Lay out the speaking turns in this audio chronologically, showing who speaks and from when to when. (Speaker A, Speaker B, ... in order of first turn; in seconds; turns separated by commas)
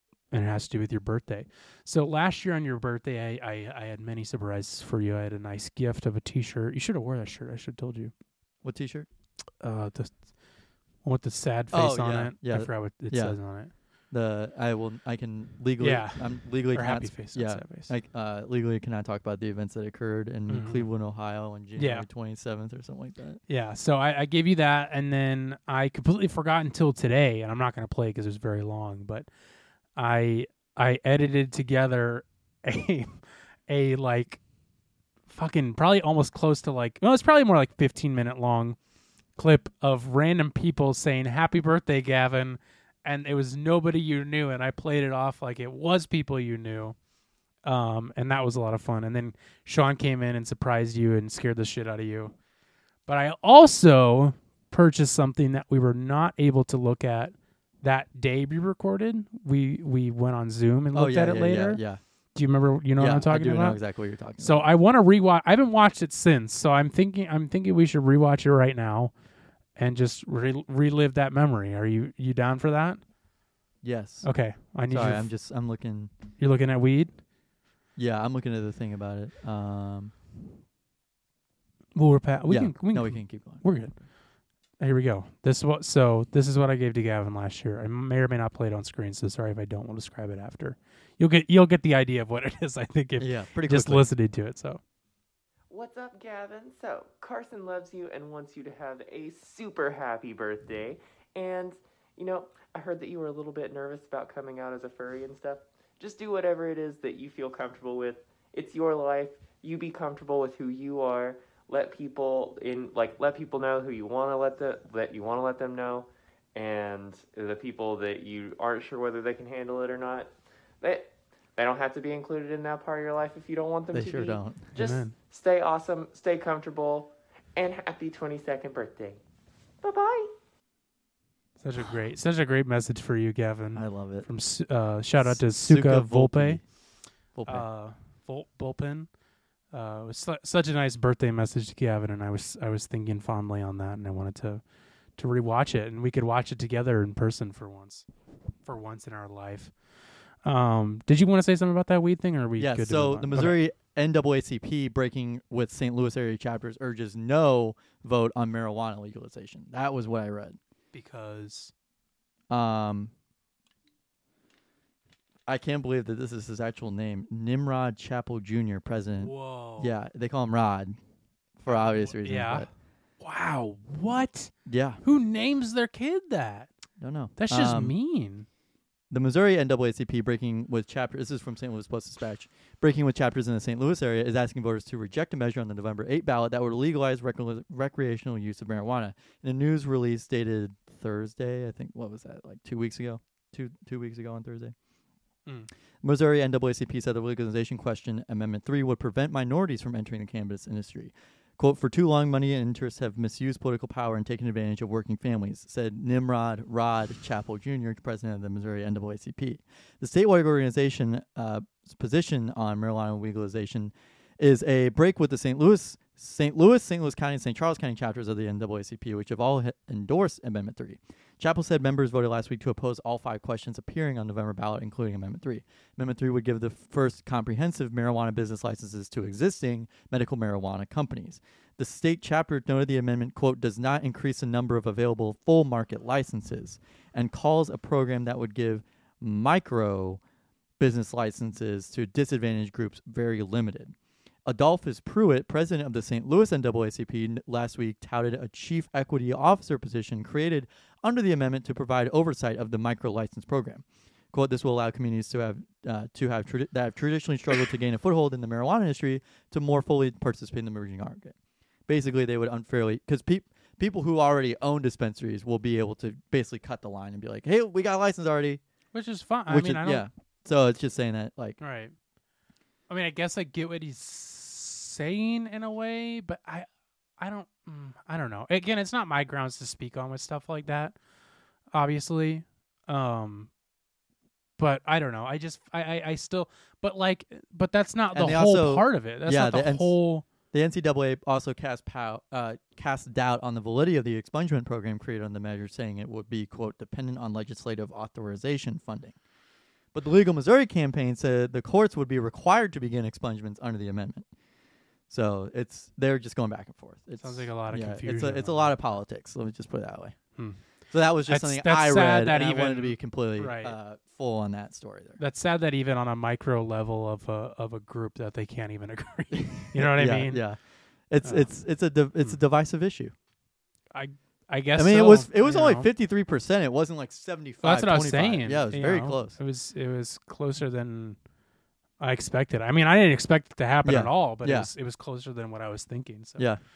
Speaker A: 0.3-8.1, Speaker B: 8.6-9.1, Speaker A: 9.6-10.2, Speaker A: 11.0-13.7, Speaker B: 11.7-13.4, Speaker B: 14.1-23.4, Speaker A: 15.8-17.9, Speaker A: 20.5-20.9, Speaker A: 21.8-22.1, Speaker A: 23.5-29.3, Speaker A: 29.9-34.4, Speaker A: 35.3-38.8, Speaker A: 39.4-47.0, Speaker A: 47.6-52.3, Speaker A: 53.0-61.8, Speaker B: 60.9-62.0, Speaker A: 62.3-63.8, Speaker B: 63.0-64.7, Speaker A: 64.4-69.1, Speaker A: 69.8-73.0, Speaker B: 73.8-74.3, Speaker A: 74.2-75.3, Speaker B: 74.9-76.1, Speaker A: 76.4-77.2, Speaker B: 78.0-80.1, Speaker A: 81.9-84.0, Speaker B: 82.5-83.8, Speaker A: 84.8-94.8, Speaker B: 93.2-94.1, Speaker C: 95.7-129.2, Speaker B: 123.9-124.6, Speaker A: 124.7-125.1, Speaker C: 129.8-130.3, Speaker A: 131.6-136.6, Speaker B: 133.7-134.3, Speaker B: 135.2-136.6, Speaker B: 137.3-137.7, Speaker A: 137.4-139.1, Speaker A: 139.7-144.6, Speaker A: 145.2-148.1, Speaker A: 148.6-149.7, Speaker A: 150.4-153.6, Speaker B: 152.6-160.6, Speaker A: 160.9-161.7, Speaker B: 162.5-163.1, Speaker B: 165.5-171.0, Speaker A: 169.2-169.9, Speaker B: 171.6-172.7, Speaker A: 171.7-172.7, Speaker A: 173.2-174.5, Speaker B: 174.7-175.0, Speaker A: 175.0-176.7, Speaker B: 177.0-177.9, Speaker A: 177.4-178.5, Speaker B: 179.1-194.7, Speaker B: 196.0-240.2, Speaker B: 240.8-243.9, Speaker B: 244.4-261.3, Speaker B: 261.9-268.6, Speaker A: 268.9-270.0, Speaker B: 269.5-271.6, Speaker A: 271.6-271.9, Speaker A: 272.9-276.7, Speaker A: 277.2-280.9, Speaker A: 281.7-283.5, Speaker A: 284.6-290.2, Speaker B: 288.1-289.9, Speaker B: 290.5-299.1, Speaker B: 299.9-304.2, Speaker B: 305.1-310.2, Speaker A: 307.2-308.7, Speaker B: 310.9-315.2, Speaker A: 311.3-313.8, Speaker A: 315.2-320.4, Speaker B: 319.3-320.6, Speaker B: 321.1-323.1, Speaker A: 321.2-321.5, Speaker A: 323.9-325.9, Speaker B: 324.8-329.4, Speaker A: 327.6-331.2, Speaker A: 332.0-336.5, Speaker B: 333.8-334.7